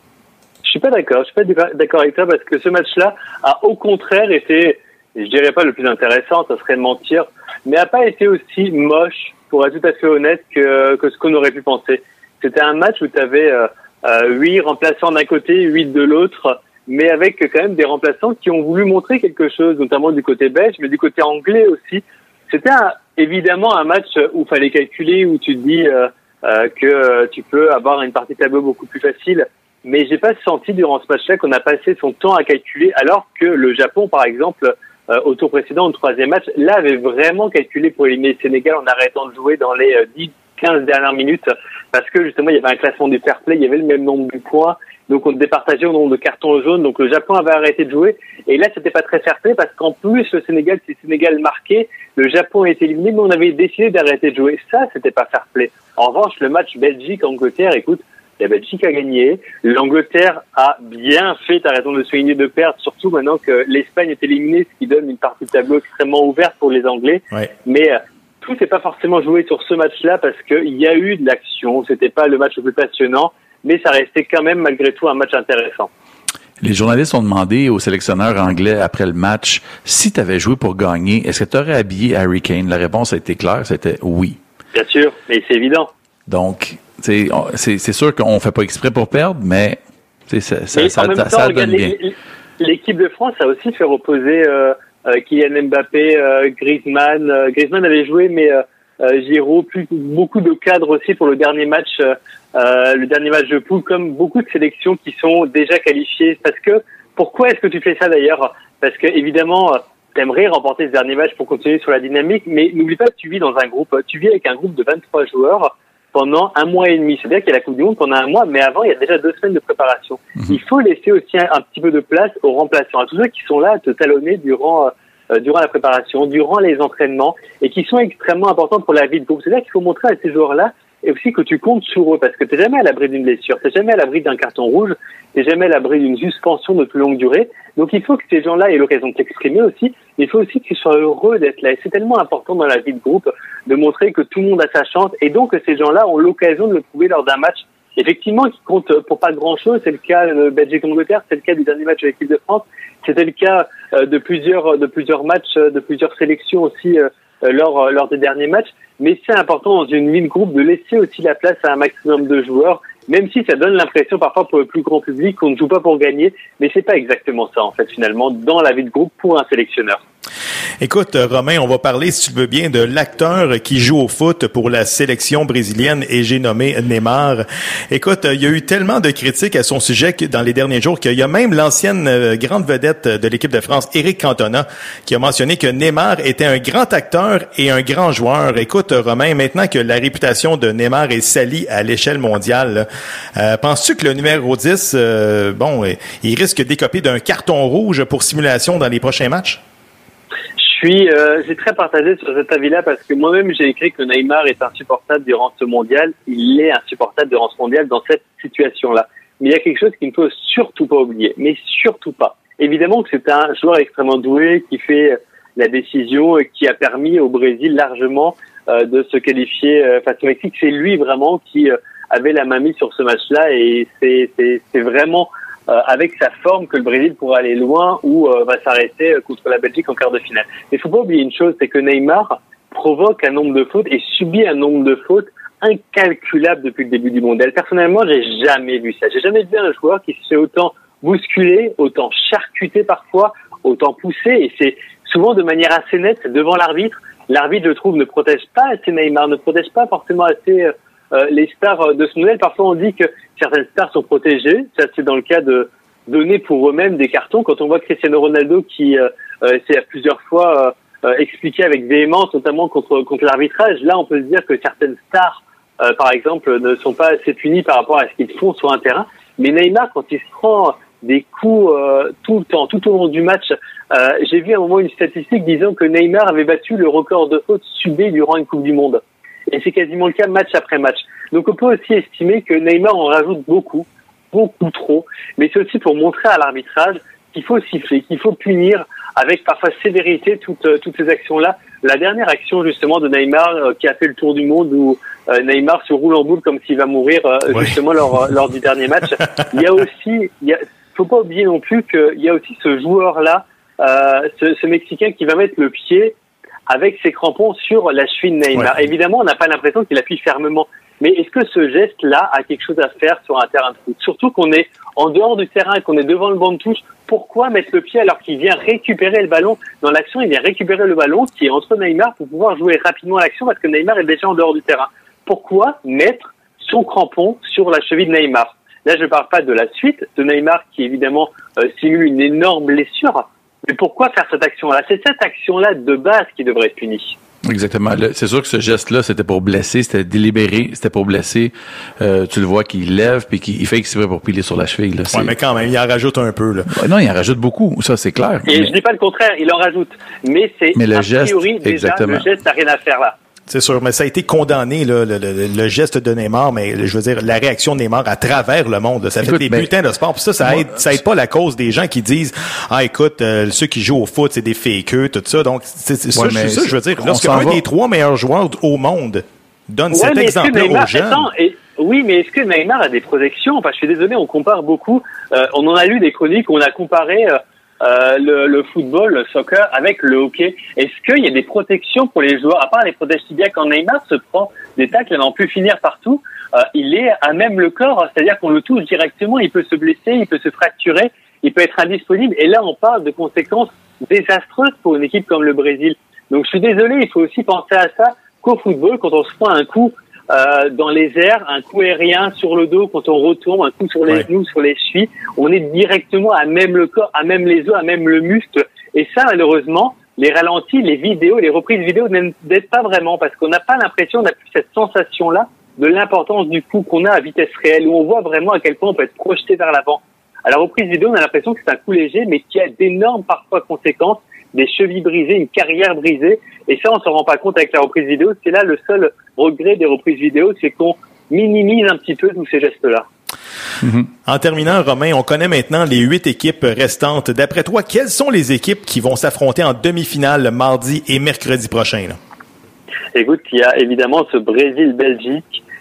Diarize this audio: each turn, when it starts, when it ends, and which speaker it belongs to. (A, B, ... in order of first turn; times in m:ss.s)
0:00.6-1:15.9 A
1:16.6-1:24.4 B
1:24.7-1:25.9 A
1:26.3-1:32.0 B
1:30.7-2:50.0 A
2:50.8-3:19.6 C
3:20.6-5:06.2 A
5:06.7-5:37.2 A
5:37.4-5:45.3 B
5:45.1-5:46.7 C
5:46.7-5:48.8 B
5:48.5-5:53.2 A
5:50.7-5:52.3 B
5:53.5-6:11.3 C
5:59.2-5:59.7 B
6:00.4-6:01.0 B
6:06.1-6:07.6 B
6:09.9-7:13.1 A
7:13.8-7:14.1 B
7:14.2-7:22.2 C
7:23.1-7:25.6 A